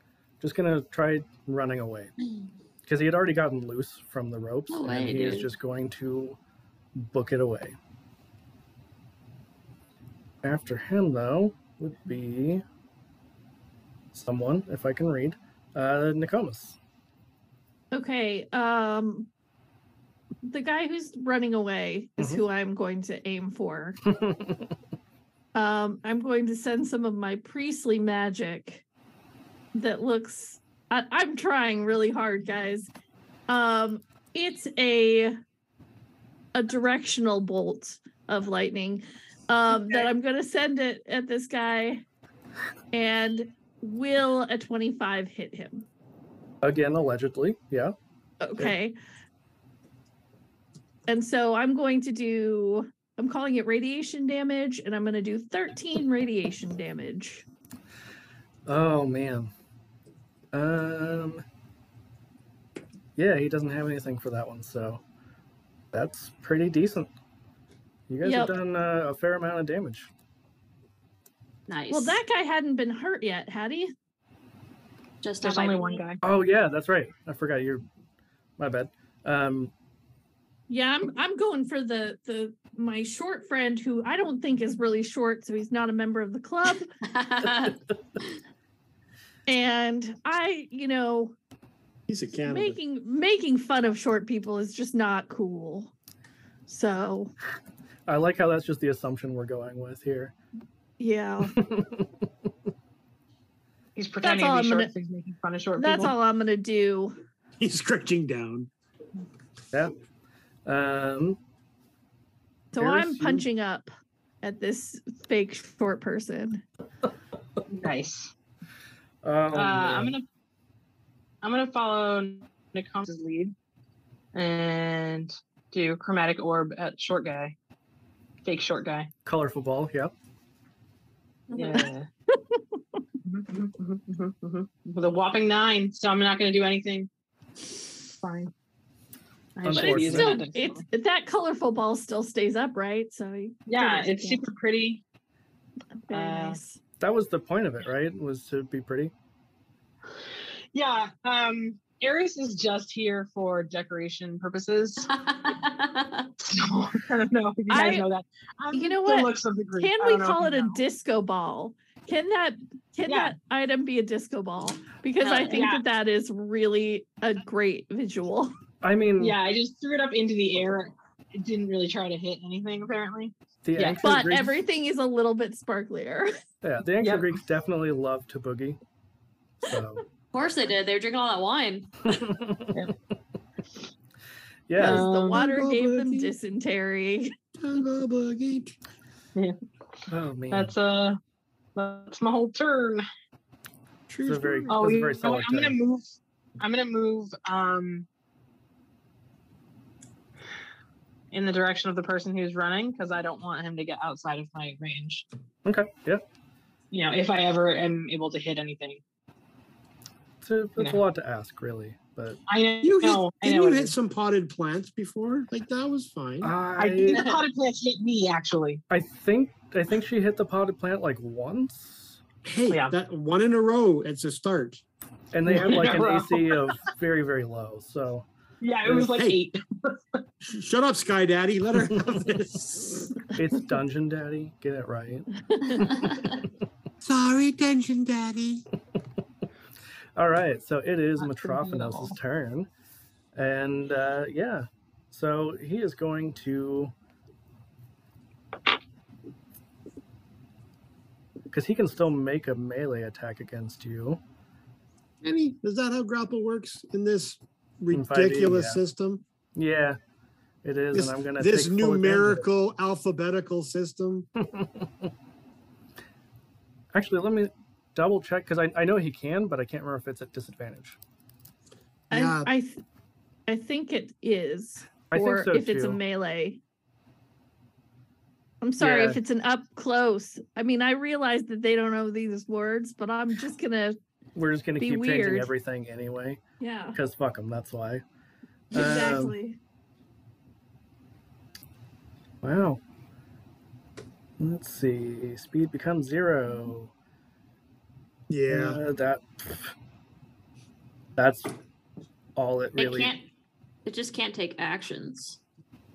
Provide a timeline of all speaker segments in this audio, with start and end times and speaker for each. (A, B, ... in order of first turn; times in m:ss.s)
0:00.4-0:02.1 A
0:02.8-0:06.4 A
0:04.7-0:05.5 B
0:07.0-0:07.8 A
0:10.4-0:12.6 A
0:14.1-0:16.8 A
0:17.9-0:19.3 C
0:20.4-0:24.0 C
0:22.2-0:22.4 A
0:24.1-0:24.7 A
0:25.5-0:28.8 C
0:29.7-0:32.9 C
0:33.5-0:35.4 C
0:36.5-0:42.0 C
0:42.9-0:45.8 C
0:46.6-0:47.9 A
0:48.4-0:48.9 C
0:51.1-0:57.4 C
0:58.6-0:59.5 A
1:00.5-1:01.4 A
1:03.2-1:05.0 A
1:05.9-1:07.1 A
1:08.1-1:10.1 A
1:08.2-1:08.5 C
1:11.7-1:12.2 B
1:11.9-1:13.9 C
1:15.2-1:16.0 B
1:15.4-1:16.2 D
1:16.2-1:17.8 A
1:18.6-1:19.7 A
1:20.7-1:26.9 C
1:27.1-1:27.7 B
1:29.5-1:31.3 C
1:32.1-1:32.8 E
1:32.4-1:35.9 C
1:36.7-1:37.3 C
1:38.1-1:40.3 A
1:41.0-1:41.5 C
1:41.5-1:42.1 A
1:44.0-1:46.2 D
1:44.2-1:44.9 C
1:45.8-1:47.2 C
1:47.6-1:48.7 E
1:50.6-1:51.4 A
1:52.7-1:53.9 C
1:52.8-1:53.4 A
1:54.4-1:56.6 C
1:57.7-1:58.3 D
1:59.2-2:00.1 A
1:59.5-2:00.2 D
2:01.4-2:03.5 D
2:04.3-2:07.6 D
2:08.4-2:09.1 D
2:09.2-2:10.1 A
2:11.5-2:11.9 B
2:11.5-2:12.1 D
2:13.2-2:17.1 D
2:18.2-2:18.5 D
2:19.6-2:20.8 D
2:19.6-2:20.4 A
2:19.7-2:24.4 C
2:23.6-2:25.0 D
2:26.0-2:26.8 C
2:26.1-2:26.6 D
2:27.0-2:29.1 A
2:30.7-2:35.1 D
2:35.1-2:36.3 B
2:36.4-2:40.8 D
2:37.7-2:38.1 C
2:38.7-2:48.5 C
2:43.0-2:43.4 D
2:45.2-2:45.6 B
2:45.4-2:45.8 D
2:48.8-2:49.4 A
2:49.2-2:54.0 D
2:53.6-2:54.6 A
2:54.0-2:56.3 C
2:56.6-2:58.8 A
2:57.0-2:57.4 D
2:59.6-3:00.0 A
3:00.3-3:01.9 B
3:02.1-3:02.8 A
3:04.7-3:05.0 A
3:04.8-3:05.4 D
3:04.8-3:07.3 C
3:05.3-3:06.3 E
3:07.6-3:08.7 E
3:10.1-3:10.7 A
3:10.5-3:11.2 D
3:11.7-3:13.0 D
3:14.1-3:14.8 E
3:14.2-3:15.8 A
3:14.7-3:18.1 D
3:21.3-3:25.2 D
3:25.6-3:26.2 A
3:26.9-3:29.0 D
3:30.4-3:32.4 A
3:32.5-3:33.9 D
3:32.8-3:36.5 E
3:36.4-3:37.3 A
3:36.8-3:38.8 D
3:38.9-3:42.2 A
3:42.4-3:44.8 E
3:42.7-3:43.0 D
3:45.3-3:48.3 A
3:45.4-3:46.8 D
3:48.6-3:50.2 D
3:49.1-3:49.4 E
3:50.4-3:53.2 E
3:53.3-3:56.3 A
3:57.0-3:58.6 E
4:00.2-4:02.7 A
4:01.2-4:02.1 D
4:03.3-4:06.9 A
4:11.5-4:14.2 A
4:15.2-4:19.2 E
4:17.9-4:18.8 A
4:19.6-4:20.0 A
4:20.6-4:22.4 A
4:20.9-4:24.3 E
4:24.4-4:25.1 A
4:26.9-4:31.0 A
4:32.1-4:32.8 C
4:32.1-4:32.5 E
4:33.5-4:36.6 C
4:35.1-4:36.0 A
4:38.6-4:44.0 C
4:38.8-4:39.2 A
4:44.3-4:46.4 A
4:44.8-4:45.5 C
4:46.6-4:47.0 C
4:46.9-4:48.0 A
4:48.7-4:49.4 A
4:48.7-4:49.6 C
4:52.4-4:52.8 A
4:54.4-4:56.9 A
4:58.3-4:58.8 E
4:58.5-4:59.7 A
5:01.2-5:01.5 A
5:02.4-5:03.1 A
5:02.8-5:03.2 B
5:03.8-5:05.4 B